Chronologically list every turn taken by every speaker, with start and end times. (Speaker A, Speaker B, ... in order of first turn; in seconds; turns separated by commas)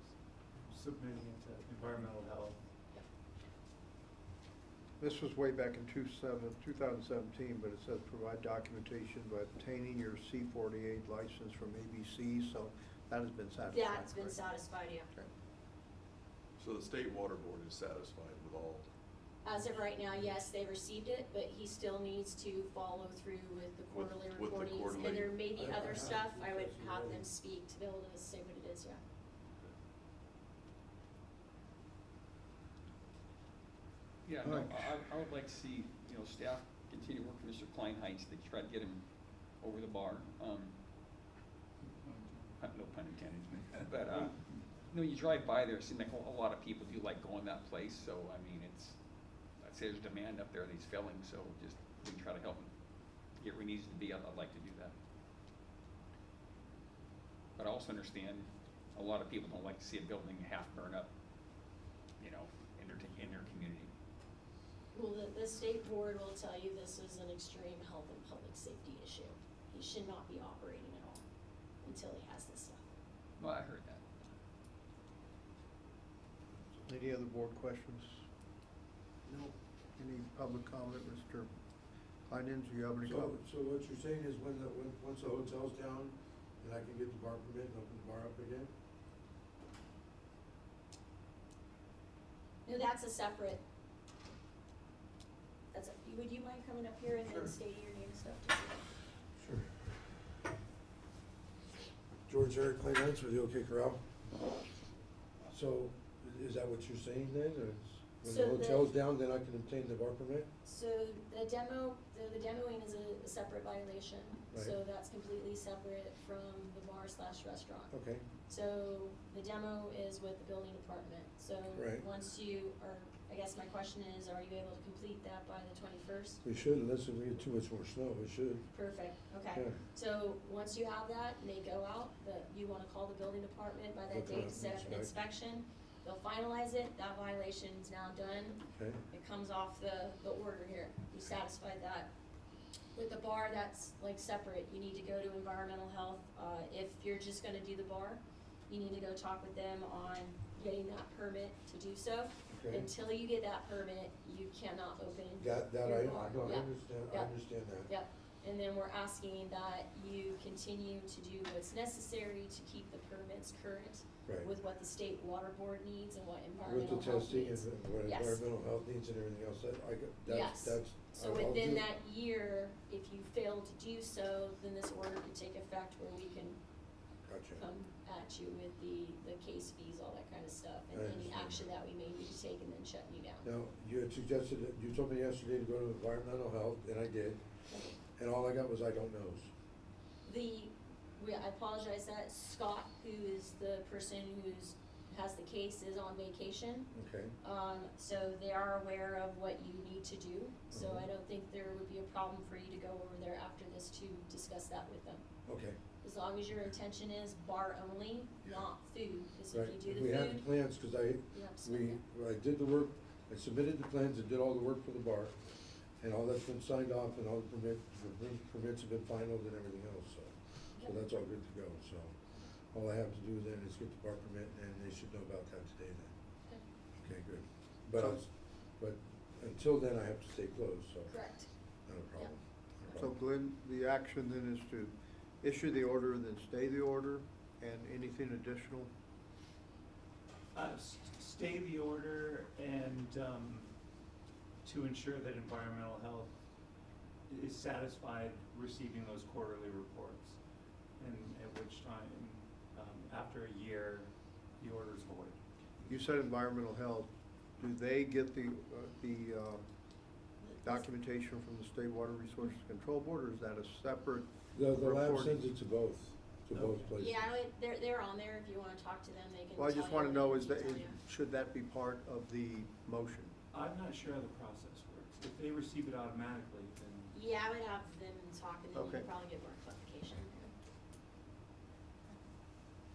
Speaker A: 0.6-2.6, Speaker B: 5.0-14.4, Speaker C: 13.7-15.1, Speaker D: 16.6-18.9, Speaker C: 19.4-29.0, Speaker D: 23.9-25.3, Speaker E: 25.6-27.2, Speaker F: 34.2-39.0, Speaker B: 34.4-34.9, Speaker F: 39.6-40.8, Speaker A: 41.9-42.5, Speaker F: 42.6-49.0, Speaker F: 49.6-52.7, Speaker F: 53.4-54.9, Speaker F: 57.6-61.1, Speaker F: 62.2-63.9, Speaker C: 64.9-71.2, Speaker C: 71.8-72.9, Speaker F: 73.4-74.0, Speaker B: 76.9-78.2, Speaker E: 79.2-79.5, Speaker B: 80.0-81.5, Speaker B: 82.3-83.4, Speaker E: 83.0-88.7, Speaker C: 92.7-93.6, Speaker C: 95.7-98.9, Speaker E: 99.4-99.8, Speaker E: 102.3-104.0, Speaker E: 105.5-110.5, Speaker C: 108.2-108.9, Speaker C: 110.7-117.9, Speaker E: 117.9-118.3, Speaker C: 118.5-126.4, Speaker E: 121.7-122.0, Speaker E: 126.4-128.7, Speaker C: 128.7-142.1, Speaker E: 129.5-129.8, Speaker E: 134.1-135.1, Speaker E: 138.7-139.0, Speaker C: 142.9-157.3, Speaker E: 152.5-152.9, Speaker E: 155.4-157.9, Speaker C: 157.9-168.4, Speaker E: 166.7-171.8, Speaker C: 170.3-176.6, Speaker E: 177.3-177.6, Speaker C: 177.6-183.5, Speaker E: 180.9-181.7, Speaker E: 183.4-187.4, Speaker E: 188.2-189.5, Speaker C: 190.2-196.9, Speaker E: 196.9-197.3, Speaker C: 197.4-205.2, Speaker E: 200.7-201.1, Speaker E: 205.5-205.8, Speaker C: 206.0-210.4, Speaker E: 209.5-215.4, Speaker C: 211.3-212.0, Speaker E: 216.0-222.2, Speaker E: 222.7-226.1, Speaker E: 227.0-231.1, Speaker C: 231.1-231.5, Speaker E: 231.9-233.1, Speaker B: 233.0-238.9, Speaker A: 240.5-243.7, Speaker A: 244.6-246.3, Speaker A: 247.3-250.4, Speaker A: 251.0-255.4, Speaker B: 255.8-259.7, Speaker C: 260.4-260.9, Speaker B: 260.6-265.4, Speaker E: 264.5-267.3, Speaker A: 266.5-266.9, Speaker C: 267.0-271.0, Speaker B: 269.6-273.3, Speaker A: 273.5-277.1, Speaker C: 277.1-280.5, Speaker B: 278.7-279.1